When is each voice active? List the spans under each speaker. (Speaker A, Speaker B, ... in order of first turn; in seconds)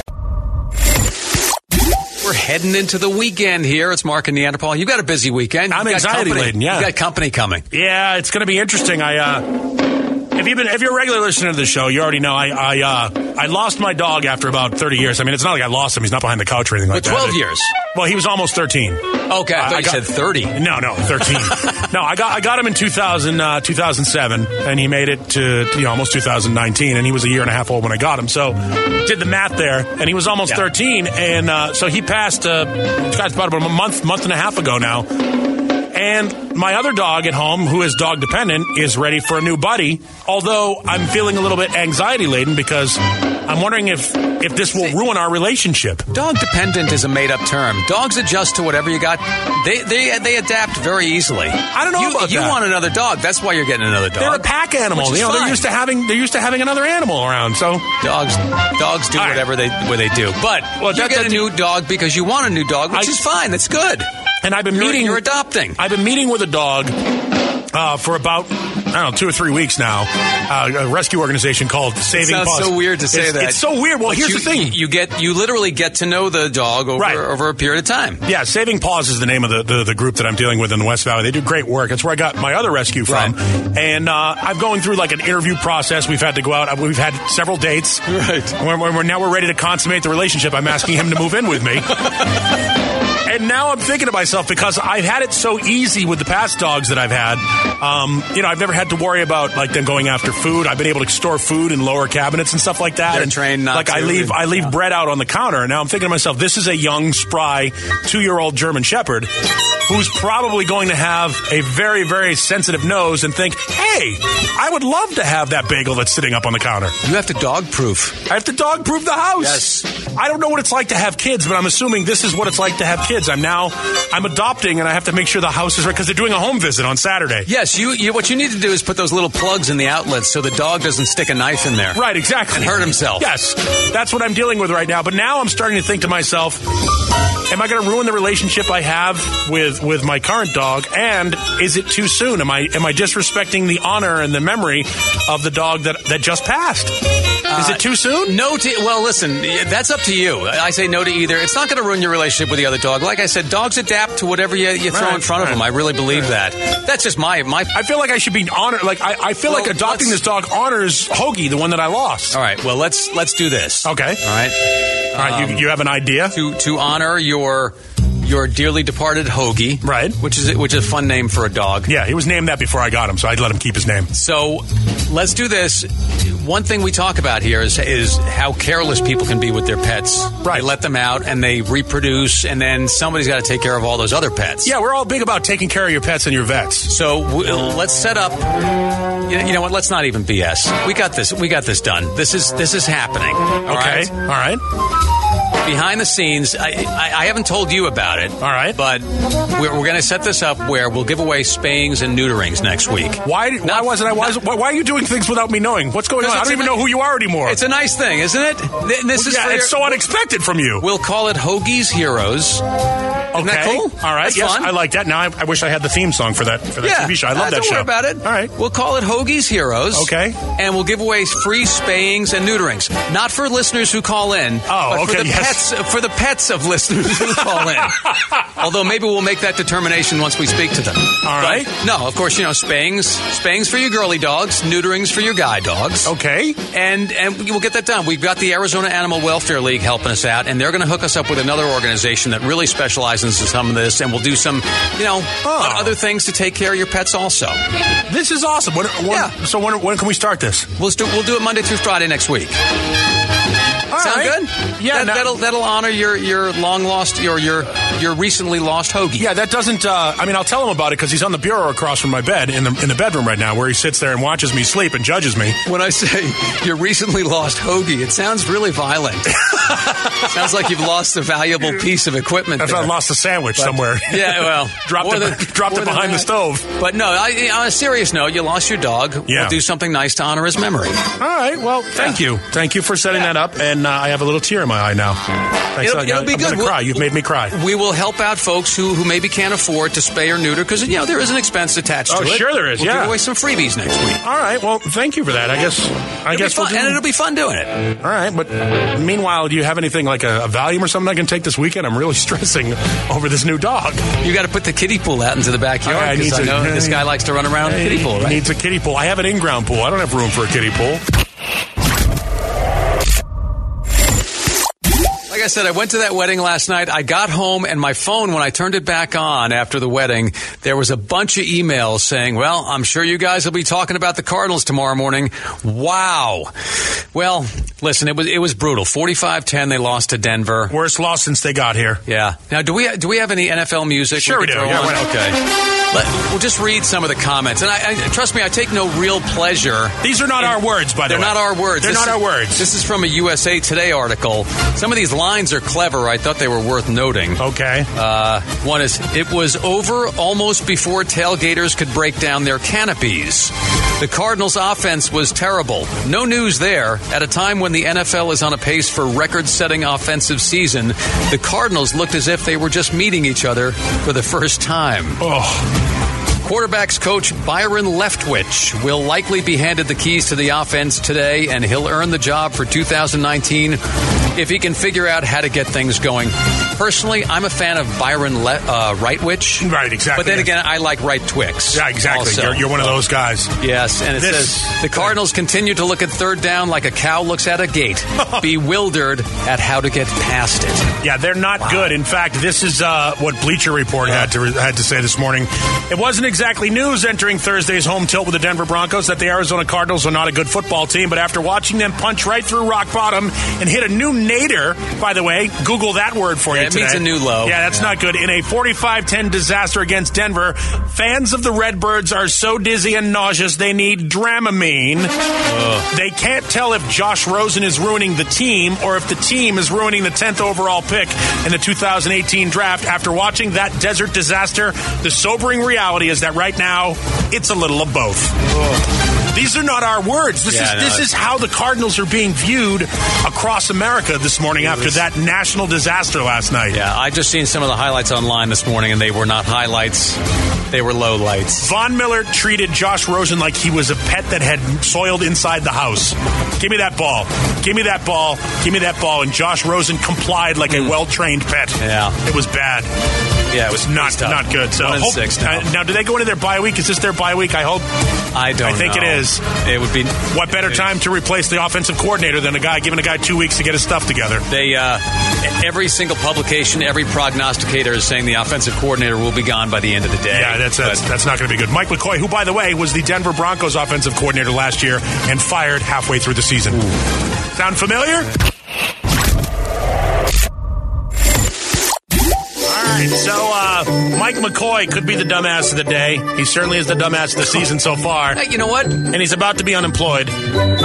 Speaker A: 2.2-7.6, 16.9-17.7, 19.3-20.6, 21.2-21.6, 46.1-55.6, 58.0-64.1, 64.7-65.8, 72.1-78.2, 83.1-83.3, 88.1-88.5, 103.1-104.7, 117.0-118.2, 119.4-119.8, 127.5-132.0, 132.5-133.2, 147.5-157.7, 159.4-160.2, 162.3-165.7, 166.3-171.9, 174.1-184.7, 186.8-188.7, 189.2-194.1, 195.6-204.4, 206.2-206.9, 207.4-210.0, 210.8-212.6, 213.3-214.7, 216.8-236.1, 236.7-247.6, 250.8-252.6, 254.0-259.3, 265.6-272.9, 273.6-281.1, 285.8-294.2, 296.3-297.8, 304.2-308.4, 315.3-326.5, 327.1-330.7, 332.1-347.4, 347.9-365.2, 366.4-373.8, 374.3-383.0, 383.6-390.9, 391.6-392.0, 394.0-394.3, 406.5-407.9, 415.4-415.9, 430.5-431.1, 434.6-435.0, 436.7-441.7, 450.7-450.9, 451.8-452.2, 453.5-455.7, 458.3-460.9, 464.5-471.0, 488.3-489.0
Speaker B: 5.7-6.9, 7.7-9.4, 10.3-35.1, 35.9-46.0, 51.7-52.6, 54.2-57.9, 59.1-59.5, 60.8-61.5, 62.9-63.2, 64.4-65.2, 65.7-67.0, 67.7-74.8, 77.0-77.2, 78.2-88.0, 88.5-92.0, 93.2-109.3, 109.9-116.9, 118.3-127.5, 131.9-136.6, 137.5-148.3, 154.9-155.6, 157.7-162.4, 163.8-164.2, 165.2-166.3, 169.8-170.2, 171.9-174.1, 184.6-186.9, 193.6-194.6, 198.4-198.8, 203.2-207.6, 209.1-210.8, 213.3-218.5, 219.9-220.4, 224.7-225.6, 231.2-231.7, 236.0-236.6, 245.4-246.0, 248.1-250.7, 253.9-255.3, 259.2-265.6, 272.6-276.7, 279.2-279.6, 281.2-285.2, 285.7-287.5, 292.1-293.1, 294.2-297.0, 298.0-304.0, 305.8-307.1, 307.6-311.0, 330.7-332.0, 334.1-335.0, 340.0-342.6, 347.4-347.9, 365.2-365.7, 379.6-380.6, 381.7-383.5, 384.1-385.1, 388.2-388.5, 391.0-415.1, 415.9-428.3, 429.3-436.8, 441.6-452.9, 453.7-457.9, 458.6-459.5, 460.3-464.4, 470.3-476.8, 477.5-478.3, 482.7-488.4, 489.0-490.3